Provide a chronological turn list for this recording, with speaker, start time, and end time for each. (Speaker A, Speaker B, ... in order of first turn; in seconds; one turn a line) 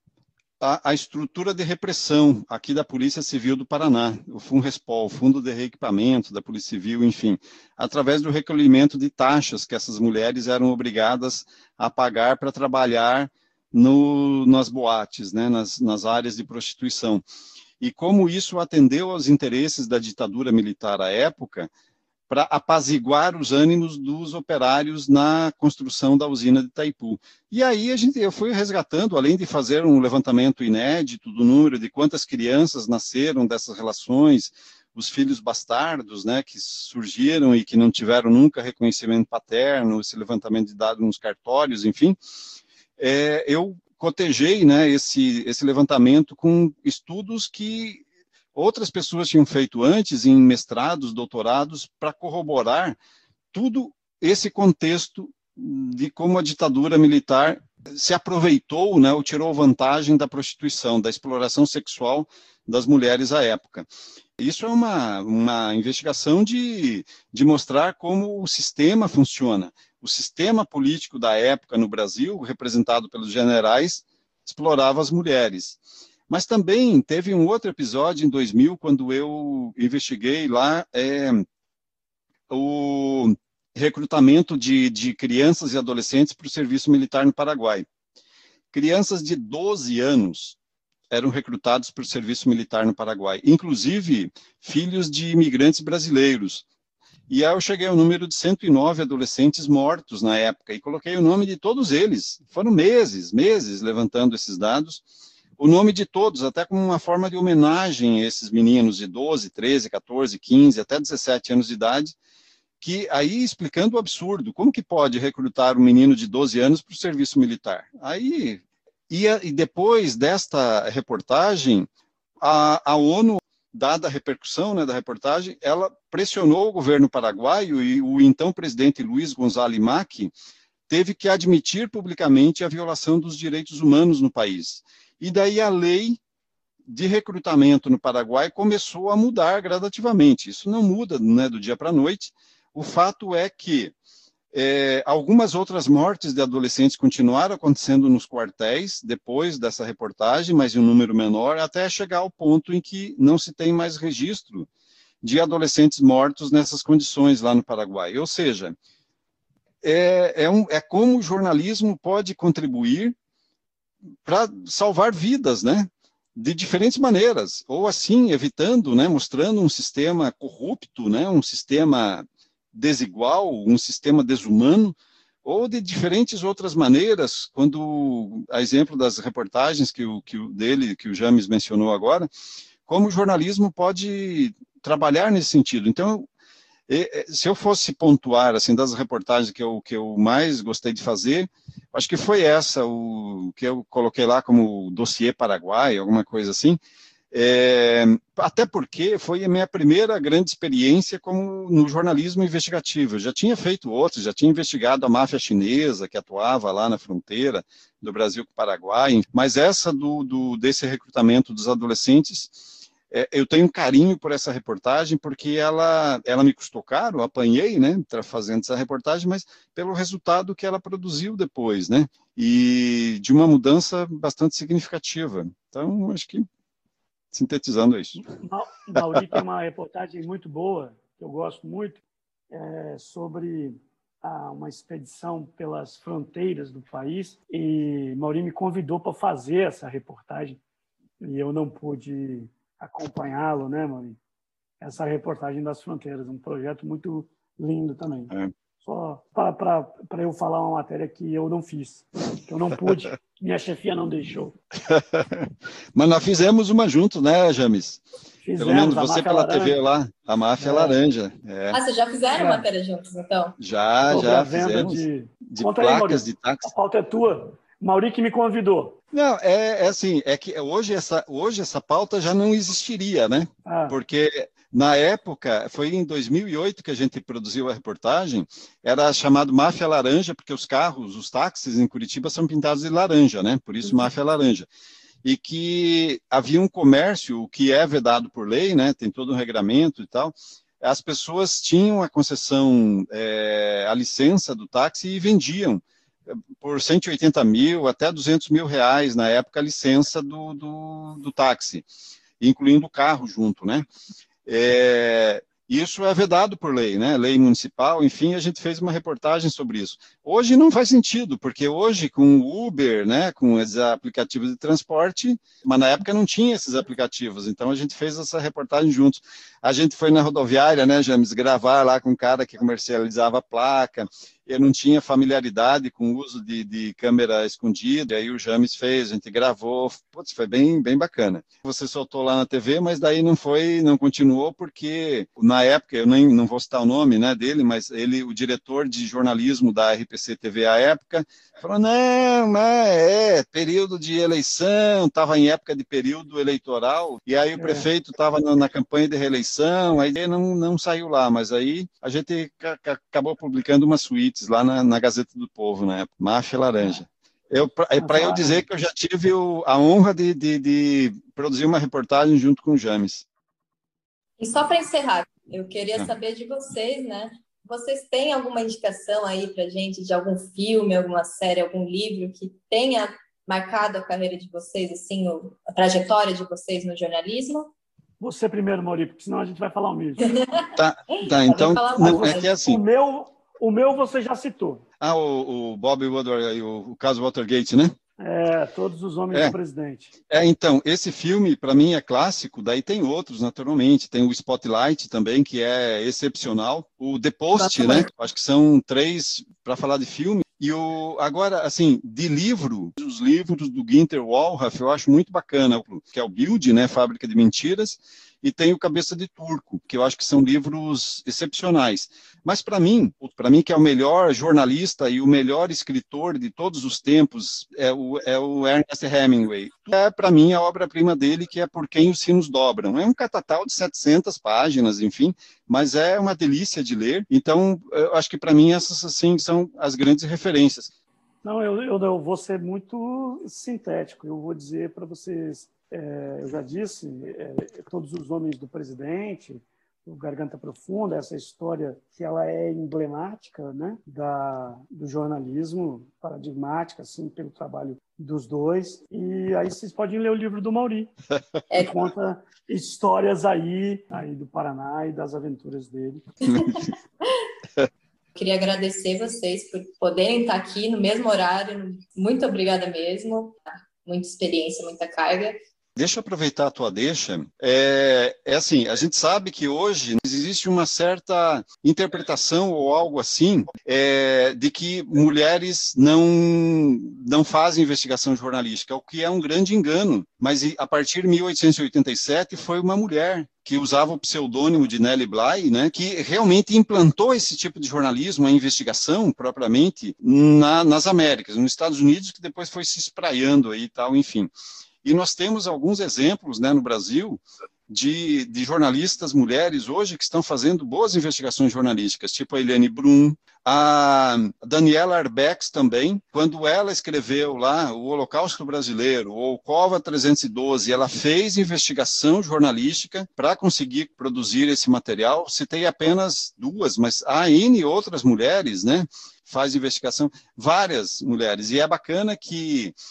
Speaker A: 0.6-17.2
Speaker A: 17.8-21.7
Speaker A: 22.3-42.2
Speaker A: 43.0-48.0
Speaker A: 48.5-53.0
Speaker A: 53.5-81.5
Speaker A: 82.5-87.9
Speaker A: 88.7-90.6
Speaker A: 91.1-96.7
Speaker A: 97.3-105.0
Speaker A: 105.6-112.2
Speaker A: 112.8-121.9
Speaker A: 122.4-130.3
Speaker A: 130.9-136.2
Speaker A: 136.9-143.9
Speaker A: 144.5-154.7
Speaker A: 155.2-158.8
Speaker A: 159.8-163.2
Speaker A: 164.2-182.3
Speaker A: 182.9-186.3
Speaker A: 186.9-196.8
Speaker A: 197.3-226.5
Speaker A: 227.3-228.2
Speaker B: 228.2-240.6
Speaker A: 229.0-229.4
Speaker B: 241.2-244.2
Speaker B: 244.8-254.6
Speaker A: 254.9-258.0
Speaker B: 258.4-259.8
Speaker A: 258.6-261.8
Speaker B: 260.6-261.0
Speaker C: 261.7-263.6
Speaker B: 262.3-262.6
Speaker A: 263.6-266.7
Speaker B: 264.1-269.0
Speaker A: 269.1-284.7
Speaker B: 273.7-274.0
Speaker A: 285.2-301.9
Speaker A: 302.4-303.9
Speaker A: 304.5-363.2
Speaker B: 347.6-347.9
Speaker B: 358.0-358.6
Speaker C: 364.4-377.7
Speaker B: 378.2-380.3
Speaker C: 380.2-382.5
Speaker A: 380.8-382.8
Speaker B: 382.0-384.8
Speaker A: 385.0-387.9
Speaker B: 388.2-390.1
Speaker A: 390.3-430.9
Speaker C: 397.6-398.1
Speaker B: 431.4-451.1
Speaker C: 451.7-452.1
Speaker B: 451.8-456.2
Speaker C: 456.5-456.9
Speaker C: 458.4-465.6
Speaker A: 466.0-494.5
Speaker A: 495.0-523.0